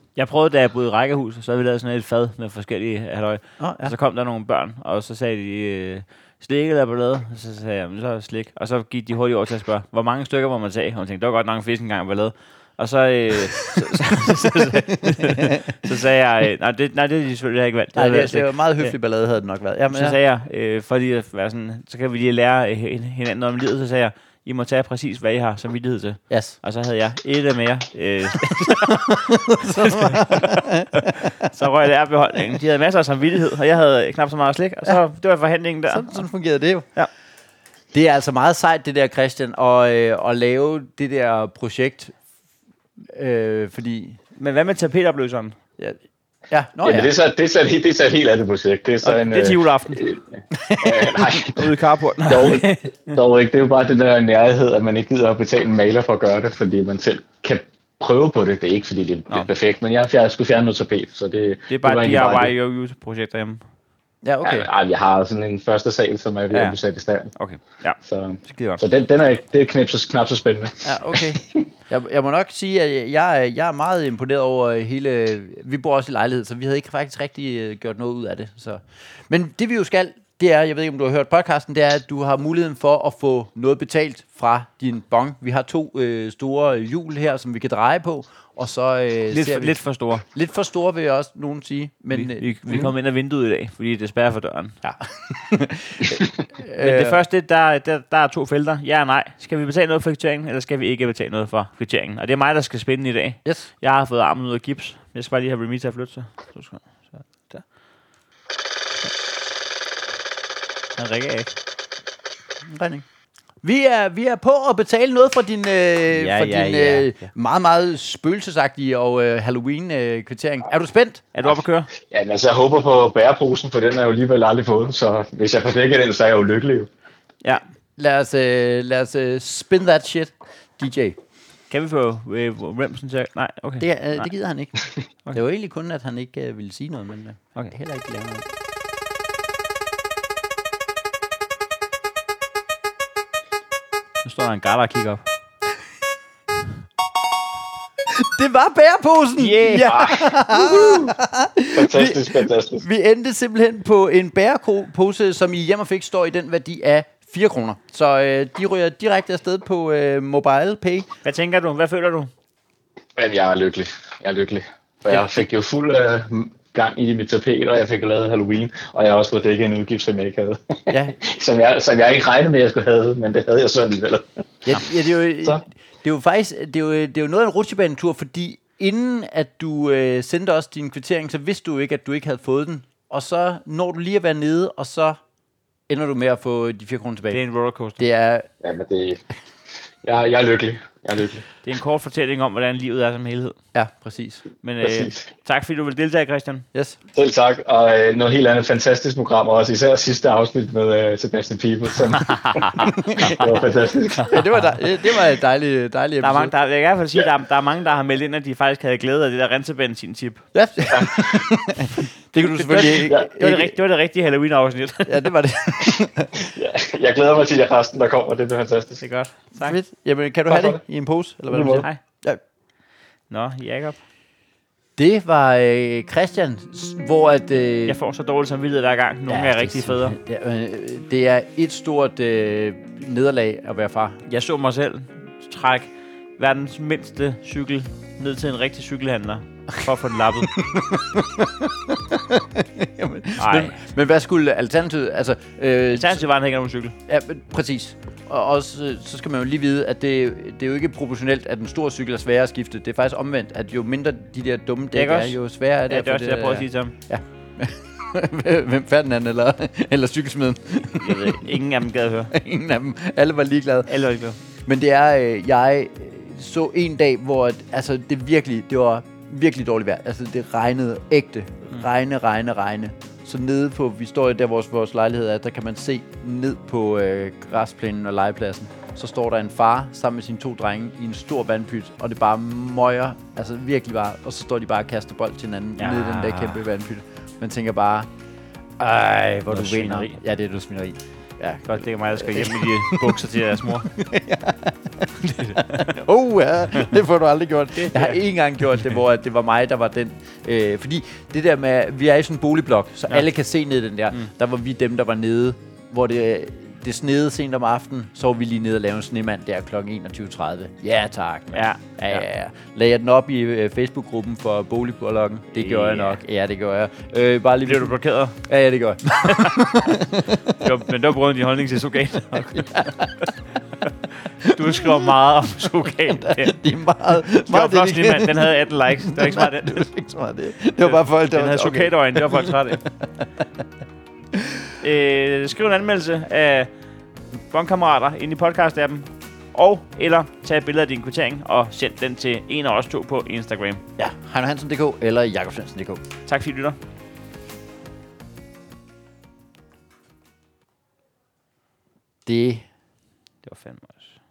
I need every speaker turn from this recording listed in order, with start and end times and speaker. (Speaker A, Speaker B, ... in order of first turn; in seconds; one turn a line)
Speaker A: 0.2-18.9
Speaker B: 3.6-4.0
Speaker B: 15.0-15.7
Speaker B: 17.9-20.2
Speaker A: 19.9-36.2
Speaker B: 26.3-26.6
Speaker B: 28.5-31.3
Speaker B: 35.9-36.9
Speaker B: 37.9-42.2
Speaker B: 43.1-44.2
Speaker A: 44.4-45.6
Speaker B: 46.5-47.1
Speaker C: 46.8-50.2
Speaker A: 49.0-50.0
Speaker B: 50.5-51.5
Speaker C: 50.8-62.5
Speaker A: 51.5-53.1
Speaker A: 61.7-63.6
Speaker B: 64.2-64.7
Speaker C: 64.4-67.3
Speaker A: 66.5-66.8
Speaker A: 67.3-68.8
Speaker C: 68.0-71.6
Speaker B: 70.8-92.8
Speaker A: 89.3-90.2
Speaker A: 92.1-94.8
Speaker B: 94.8-97.2
Speaker A: 96.8-107.7
Speaker A: 111.0-111.5
Speaker B: 112.7-113.0
Speaker B: 113.6-121.2
Speaker A: 116.1-117.3
Speaker A: 121.3-121.9
Speaker C: 122.0-126.9
Speaker B: 128.0-131.2
Speaker A: 131.7-134.3
Speaker B: 133.8-138.5
Speaker A: 144.2-145.2
Speaker B: 148.1-161.1
Speaker A: 149.4-150.0
Speaker C: 149.9-151.2
Speaker C: 151.7-152.8
Speaker A: 161.2-162.3
Speaker C: 163.2-174.8
Speaker B: 170.9-171.2
Speaker B: 174.7-185.2
Speaker B: 185.9-187.4
Speaker A: 187.3-188.1
Speaker B: 188.0-188.5
Speaker C: 188.6-189.2
Speaker C: 190.0-191.5
Speaker A: 191.6-193.6
Speaker B: 193.7-194.4
Speaker A: 194.6-196.7
Speaker C: 194.8-195.2
Speaker B: 196.7-197.0
Speaker C: 197.1-204.4
Speaker A: 202.2-203.3
Speaker B: 202.9-203.5
Speaker B: 204.3-206.5
Speaker A: 206.2-210.5
Speaker B: 210.5-213.8
Speaker C: 210.9-211.5
Speaker A: 212.4-215.3
Speaker B: 215.1-216.5
Speaker C: 216.4-219.0
Speaker A: 219.0-219.8
Speaker B: 219.6-222.4
Speaker C: 220.5-220.8
Speaker C: 221.5-221.9
Speaker A: 223.3-224.0
Speaker B: 225.0-228.0
Speaker A: 227.9-230.2
Speaker B: 229.3-234.2
Speaker A: 234.3-240.5
Speaker B: 240.6-246.2
Speaker A: 243.4-243.8
Speaker A: 245.9-246.9
Speaker B: 247.1-261.5
Speaker A: 254.9-255.4
Speaker A: 255.9-256.9
Speaker A: 261.0-262.3
Speaker B: 262.3-264.0
Speaker A: 263.9-264.4
Speaker B: 264.6-288.1
Speaker A: 285.8-286.6
Speaker B: 288.8-320.7
Speaker A: 289.5-290.2
Speaker A: 291.7-293.9
Speaker A: 295.2-296.0
Speaker A: 297.8-298.2
Speaker A: 311.5-312.2
Speaker A: 315.5-316.2
Speaker A: 317.6-318.4
Speaker A: 319.2-320.0
Speaker A: 320.6-322.9
Speaker B: 322.5-323.3
Speaker B: 324.4-325.1
Speaker A: 324.5-326.6
Speaker B: 326.1-333.4
Speaker A: 327.4-329.9
Speaker A: 330.8-332.8
Speaker B: 334.3-334.7
Speaker A: 334.8-336.7
Speaker A: 337.5-343.8
Speaker B: 344.0-346.0
Speaker A: 346.3-346.8
Speaker B: 352.3-352.6
Speaker A: 353.4-354.2